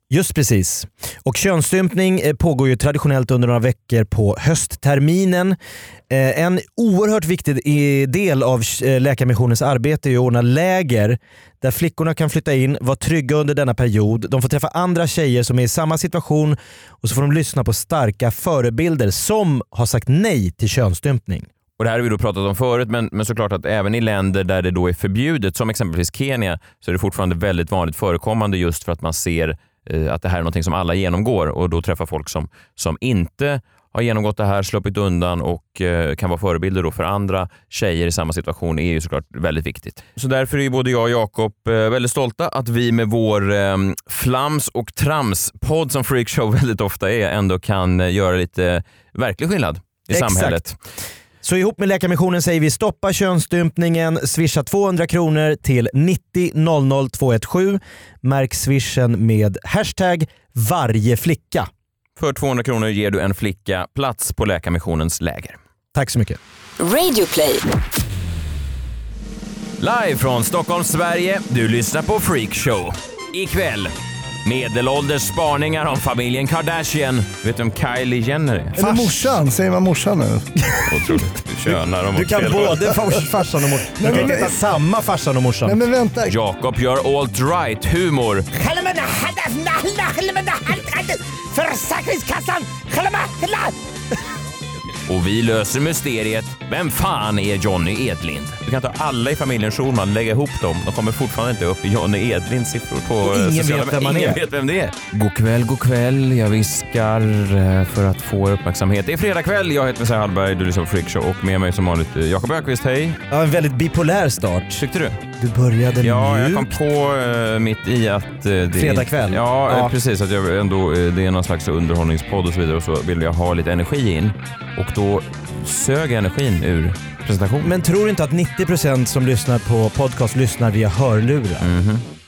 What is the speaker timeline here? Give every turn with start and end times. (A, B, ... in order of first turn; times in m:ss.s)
0:00.1-0:05.6 A
0:06.1-0:21.5 A
0:21.8-0:50.8 B
0:50.1-0:50.6 A
0:51.4-1:01.7 A
1:02.2-1:05.6 B
1:05.9-1:06.4 A
1:06.8-1:07.6 C
1:09.8-1:13.9 B
1:14.4-1:18.8 B
1:18.8-1:19.2 A
1:18.8-1:20.5 D
1:20.8-1:22.9 B
1:22.1-1:25.8 A
1:24.0-1:24.6 D
1:25.6-1:26.3 D
1:26.3-1:28.5 B
1:28.5-1:33.7 C
1:35.0-1:53.2 B
1:43.2-1:44.4 A
1:53.3-1:54.8 A
1:54.8-1:55.2 B
1:55.4-1:56.7 A
1:56.0-2:07.7 B
1:58.7-1:59.9 A
2:07.6-2:11.7 A
2:11.6-2:12.0 B